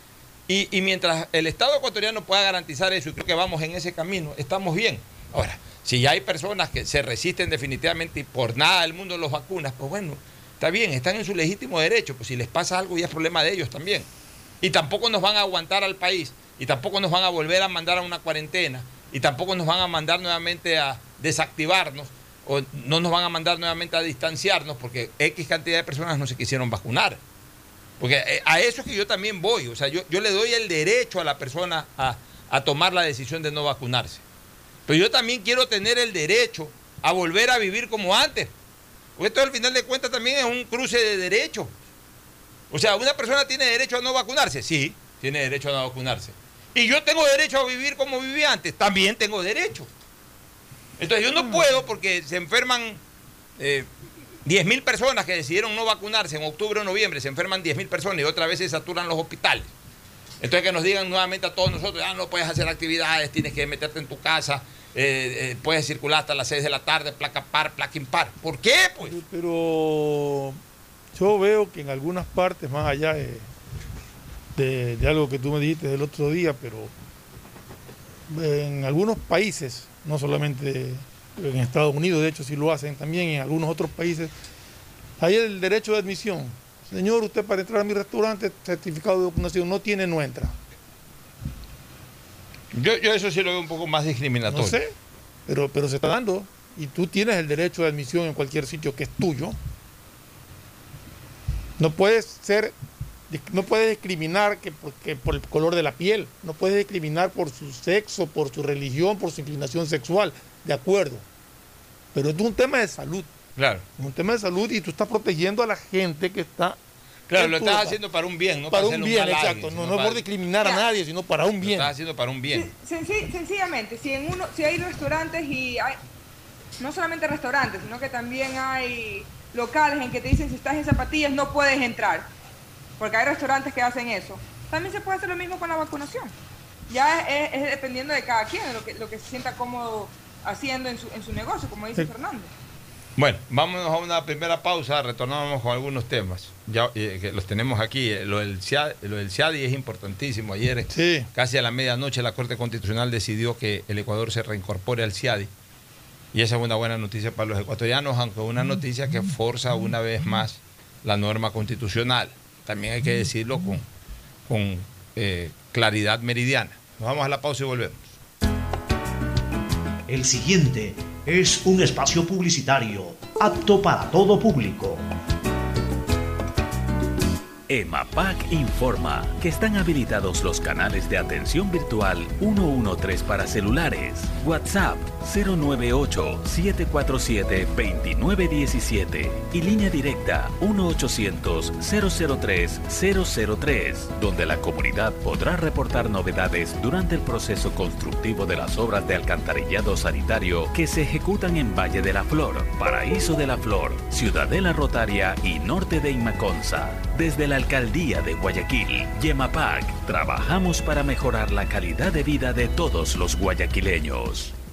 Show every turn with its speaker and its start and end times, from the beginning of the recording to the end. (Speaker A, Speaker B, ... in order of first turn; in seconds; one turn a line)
Speaker A: 0.5-14.1
Speaker A: 14.6-27.2
Speaker A: 28.0-34.2
Speaker A: 34.9-38.5
Speaker A: 39.2-41.7
Speaker A: 42.7-49.9
Speaker A: 51.0-53.0
Speaker A: 53.6-53.9
Speaker A: 54.4-59.7
Speaker A: 60.4-69.2
Speaker B: 69.0-70.6
Speaker B: 71.1-73.5
Speaker B: 74.5-76.9
Speaker B: 78.3-84.3
Speaker B: 85.2-90.5
Speaker A: 92.7-94.8
Speaker B: 94.5-94.9
Speaker B: 95.5-99.6
Speaker B: 101.8-102.8
Speaker B: 103.3-111.2
Speaker B: 112.1-113.3
Speaker A: 113.5-113.8
Speaker B: 114.0-116.8
Speaker A: 117.3-120.2
Speaker B: 117.3-118.0
Speaker B: 118.7-121.9
Speaker A: 121.6-122.7
Speaker C: 122.5-126.0
Speaker C: 126.8-132.3
Speaker C: 133.0-136.3
Speaker C: 136.9-142.5
Speaker A: 143.2-155.5
Speaker B: 150.9-151.3
Speaker A: 156.3-163.8
Speaker A: 164.5-168.2
Speaker D: 170.1-175.0
Speaker E: 177.7-214.5